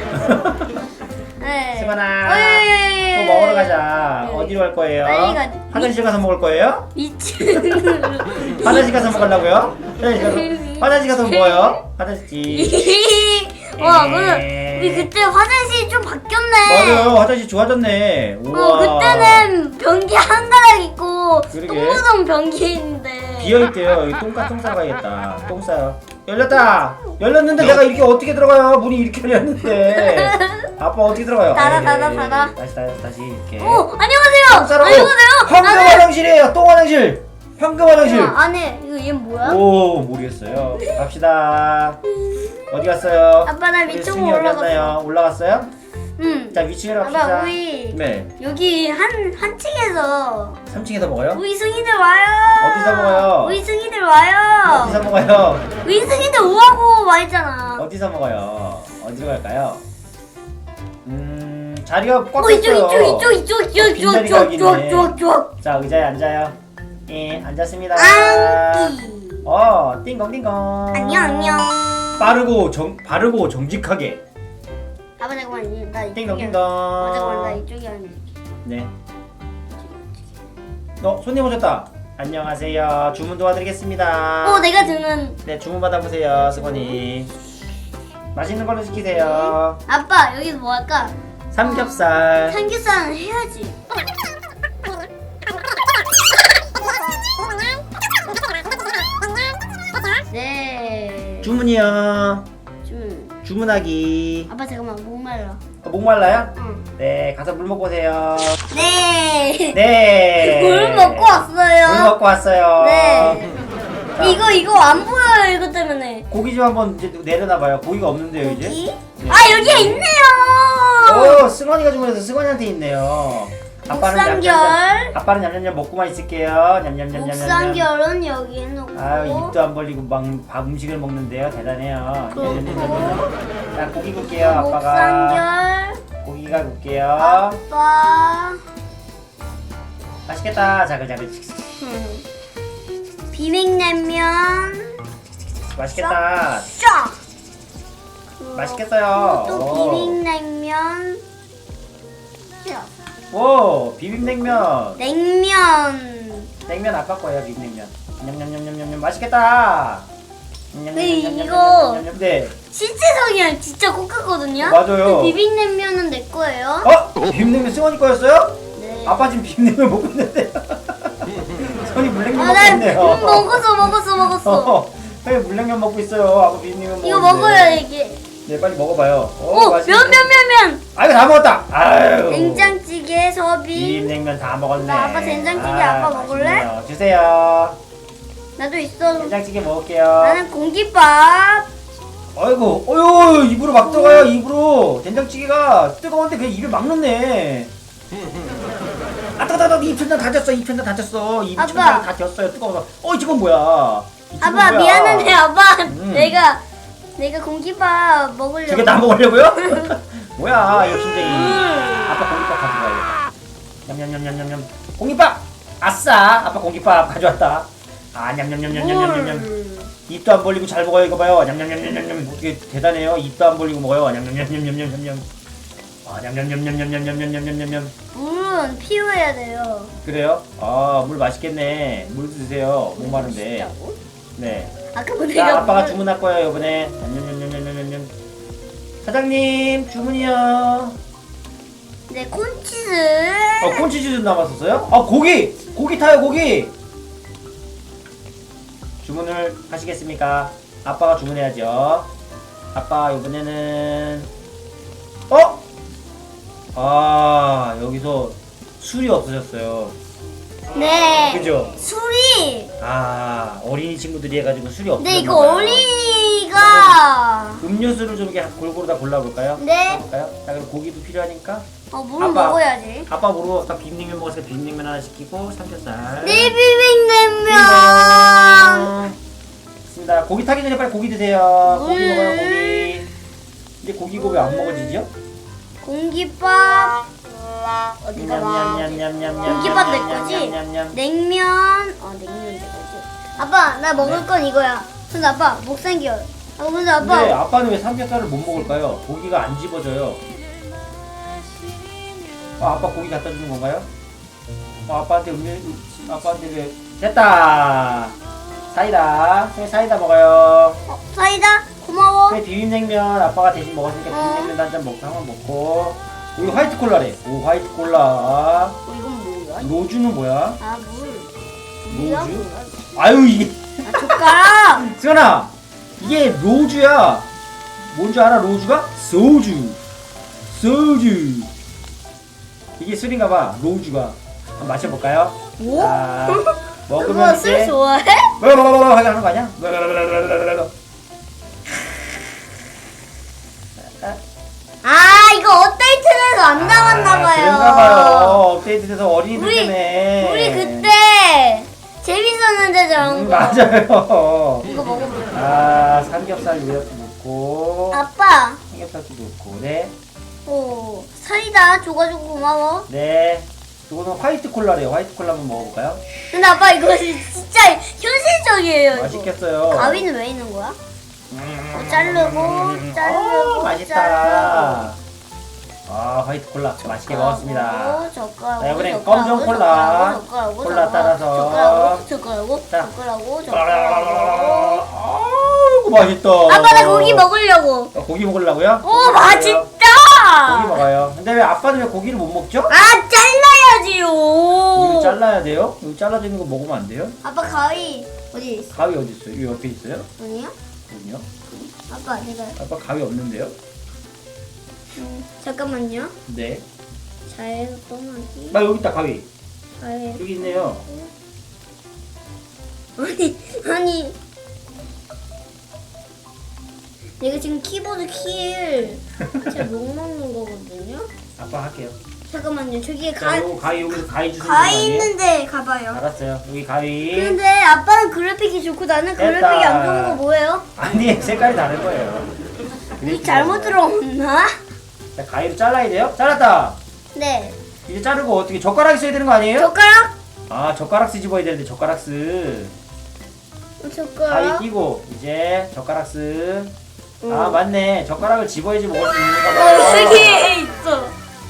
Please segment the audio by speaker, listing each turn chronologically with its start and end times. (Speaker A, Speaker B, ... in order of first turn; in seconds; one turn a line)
Speaker A: 0.1-0.6
Speaker B: 1.4-6.0
Speaker A: 1.8-6.9
Speaker B: 6.9-9.1
Speaker A: 8.4-12.9
Speaker B: 10.1-11.8
Speaker B: 12.5-17.2
Speaker A: 13.8-15.1
Speaker A: 16.6-19.5
Speaker B: 18.5-23.7
Speaker A: 21.5-22.0
Speaker A: 23.4-33.9
Speaker B: 29.7-30.7
Speaker B: 31.5-32.5
Speaker B: 33.6-36.1
Speaker A: 34.5-38.4
Speaker B: 38.0-39.6
Speaker A: 39.4-42.0
Speaker B: 40.8-41.0
Speaker A: 42.7-45.7
Speaker B: 43.5-45.0
Speaker B: 46.2-50.6
Speaker A: 46.5-48.3
Speaker A: 50.7-51.4
Speaker B: 51.3-55.0
Speaker A: 52.6-53.6
Speaker A: 54.6-55.7
Speaker B: 55.8-57.9
Speaker A: 57.8-59.8
Speaker A: 61.0-74.2
Speaker B: 62.4-65.5
Speaker B: 68.0-69.5
Speaker B: 70.9-71.9
Speaker B: 75.2-78.3
Speaker A: 76.2-77.6
Speaker A: 78.7-78.9
Speaker A: 81.0-84.8
Speaker B: 84.4-85.4
Speaker A: 85.5-87.3
Speaker B: 86.7-87.0
Speaker A: 88.3-89.8
Speaker B: 89.2-93.8
Speaker A: 91.5-92.6
Speaker B: 100.3-101.5
Speaker A: 101.4-102.5
Speaker B: 102.8-103.4
Speaker A: 103.4-104.5
Speaker B: 104.5-105.6
Speaker A: 105.8-108.6
Speaker B: 106.5-106.9
Speaker B: 108.7-109.8
Speaker A: 109.7-113.5
Speaker B: 110.4-112.1
Speaker B: 112.8-113.6
Speaker A: 114.2-114.5
Speaker B: 114.2-116.3
Speaker A: 116.3-120.1
Speaker B: 118.4-121.4
Speaker A: 121.1-127.9
Speaker B: 123.9-125.2
Speaker B: 127.1-129.6
Speaker A: 128.9-135.5
Speaker B: 132.3-133.3
Speaker B: 134.4-136.0
Speaker A: 136.2-137.6
Speaker B: 137.2-138.6
Speaker A: 140.3-141.7
Speaker B: 141.8-142.2
Speaker B: 143.3-145.0
Speaker A: 145.8-146.7
Speaker B: 145.9-147.2
Speaker B: 148.4-151.2
Speaker A: 148.6-150.2
Speaker B: 152.6-152.9
Speaker A: 153.3-155.0
Speaker B: 155.0-156.5
Speaker A: 156.7-160.1
Speaker A: 160.7-162.6
Speaker B: 160.9-162.1
Speaker B: 162.7-166.9
Speaker A: 164.6-165.4
Speaker A: 166.8-173.7
Speaker B: 168.8-169.3
Speaker B: 172.3-174.8
Speaker A: 174.4-177.8
Speaker B: 177.0-178.2
Speaker A: 178.5-180.3
Speaker B: 179.5-180.8
Speaker A: 180.9-182.8
Speaker B: 182.3-184.1
Speaker A: 183.7-187.8
Speaker B: 184.8-186.7
Speaker B: 188.6-189.3
Speaker A: 189.1-190.4
Speaker B: 190.2-191.7
Speaker A: 192.3-197.7
Speaker B: 193.8-194.3
Speaker A: 199.4-206.4
Speaker B: 201.6-202.1
Speaker B: 204.4-206.6
Speaker B: 207.2-209.9
Speaker A: 208.7-213.2
Speaker B: 210.7-212.2
Speaker A: 213.9-219.5
Speaker B: 218.7-219.9
Speaker A: 220.1-225.3
Speaker A: 226.1-227.9
Speaker B: 228.1-229.9
Speaker A: 230.0-233.7
Speaker B: 233.0-234.0
Speaker A: 234.4-234.8
Speaker B: 234.9-236.0
Speaker A: 235.3-238.1
Speaker A: 239.0-241.0
Speaker B: 242.1-243.9
Speaker A: 243.6-246.7
Speaker A: 249.0-252.1
Speaker A: 252.7-254.3
Speaker A: 255.3-255.6
Speaker A: 256.8-259.9
Speaker B: 260.7-262.7
Speaker A: 261.3-261.8
Speaker A: 262.8-265.9
Speaker B: 265.0-267.6
Speaker A: 266.5-267.0
Speaker A: 267.6-271.7
Speaker B: 269.6-270.0
Speaker B: 271.9-273.1
Speaker A: 272.2-276.6
Speaker B: 276.2-278.9
Speaker A: 277.5-279.2
Speaker A: 279.9-283.1
Speaker B: 281.6-282.9
Speaker A: 283.8-285.1
Speaker B: 284.7-285.0
Speaker B: 285.8-287.0
Speaker B: 288.0-297.4
Speaker A: 288.1-291.0
Speaker A: 294.0-294.3
Speaker A: 297.0-300.2
Speaker A: 302.6-303.9
Speaker A: 304.9-308.1
Speaker A: 308.7-310.8
Speaker B: 310.9-312.4
Speaker A: 312.3-318.8
Speaker B: 314.1-314.5
Speaker B: 318.9-319.7
Speaker A: 319.6-320.6
Speaker B: 320.6-321.3
Speaker B: 321.8-322.8
Speaker A: 321.9-327.3
Speaker B: 323.9-324.9
Speaker A: 327.9-329.8
Speaker A: 330.5-331.5
Speaker A: 332.8-337.8
Speaker B: 335.6-338.4
Speaker A: 338.4-340.7
Speaker B: 344.8-348.4
Speaker A: 346.6-350.9
Speaker B: 349.4-353.8
Speaker A: 353.0-354.7
Speaker B: 354.6-355.3
Speaker A: 355.3-358.0
Speaker B: 357.9-358.6
Speaker A: 358.7-359.9
Speaker B: 360.5-362.9
Speaker A: 362.9-366.0
Speaker B: 366.3-370.8
Speaker A: 368.9-370.1
Speaker A: 371.3-375.0
Speaker B: 371.7-374.9
Speaker A: 375.9-378.1
Speaker B: 377.1-384.8
Speaker A: 378.6-382.0
Speaker A: 383.5-387.3
Speaker B: 386.5-387.9
Speaker A: 387.9-389.7
Speaker B: 388.8-390.8
Speaker A: 390.4-392.7
Speaker B: 392.7-395.2
Speaker A: 394.7-397.2
Speaker B: 397.2-398.8
Speaker A: 398.7-400.1
Speaker B: 400.2-400.5
Speaker A: 400.9-401.3
Speaker B: 401.5-402.6
Speaker A: 402.6-403.5
Speaker B: 405.0-406.1
Speaker A: 406.3-406.6
Speaker B: 407.3-408.6
Speaker A: 408.5-409.3
Speaker B: 409.8-411.1
Speaker A: 410.2-410.8
Speaker B: 413.0-414.2
Speaker B: 417.2-421.1
Speaker A: 421.4-422.0
Speaker B: 422.3-426.0
Speaker A: 423.2-425.1
Speaker A: 425.9-427.4
Speaker B: 427.1-430.7
Speaker A: 429.2-430.2
Speaker A: 430.8-432.3
Speaker A: 433.0-433.8
Speaker B: 433.0-434.6
Speaker A: 435.1-436.8
Speaker B: 437.1-437.6
Speaker A: 437.9-439.7
Speaker B: 439.6-440.1
Speaker A: 440.5-442.7
Speaker B: 443.8-444.7
Speaker A: 444.3-446.7
Speaker B: 447.2-447.6
Speaker A: 447.3-450.6
Speaker B: 449.4-451.1